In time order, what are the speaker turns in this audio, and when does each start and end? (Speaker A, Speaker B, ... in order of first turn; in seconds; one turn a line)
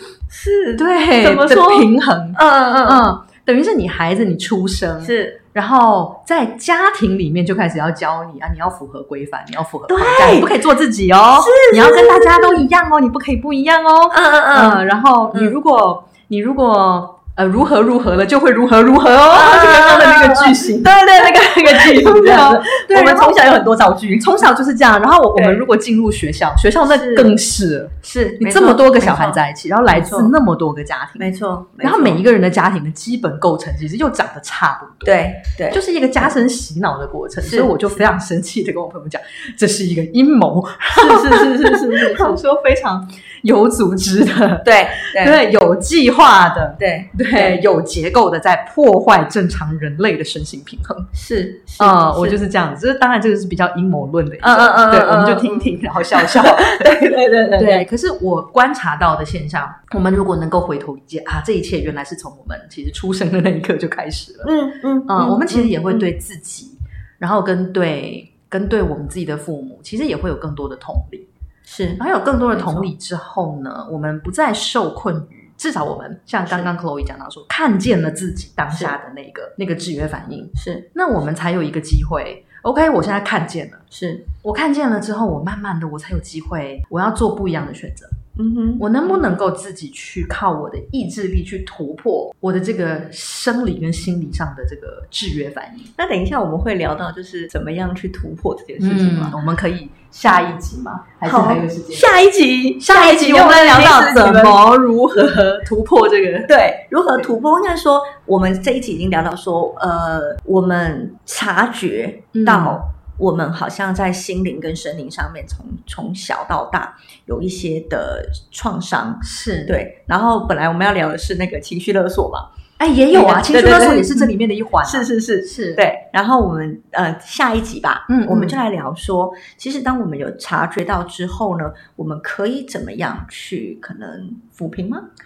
Speaker A: 0.3-3.0
Speaker B: 0.8-21.0
Speaker A: 5.0-5.4
Speaker A: 9.9-10.5
Speaker A: 11.4-12.6
Speaker A: 14.1-15.6
Speaker A: 19.2-24.5
Speaker B: 21.6-23.4
Speaker B: 24.2-51.1
Speaker A: 25.4-25.6
Speaker A: 26.9-27.4
Speaker A: 28.0-30.3
Speaker A: 31.2-32.2
Speaker A: 35.0-36.4
Speaker A: 37.4-38.0
Speaker A: 41.0-42.4
Speaker A: 44.6-45.4
Speaker A: 46.8-47.6
Speaker A: 51.1-52.4
Speaker B: 51.8-64.5
Speaker A: 54.4-57.9
Speaker A: 64.4-66.1
Speaker B: 65.1-71.3
Speaker A: 71.7-72.0
Speaker B: 72.0-83.8
Speaker A: 72.5-72.9
Speaker A: 80.6-80.9
Speaker A: 83.9-84.3
Speaker B: 84.4-88.1
Speaker A: 88.4-88.9
Speaker B: 88.8-95.9
Speaker A: 96.0-99.4
Speaker B: 98.8-102.1
Speaker A: 101.3-104.6
Speaker B: 102.8-106.5
Speaker A: 106.5-122.5
Speaker B: 112.3-112.8
Speaker B: 119.2-119.8
Speaker B: 122.8-125.9
Speaker A: 123.1-135.1
Speaker B: 128.1-128.6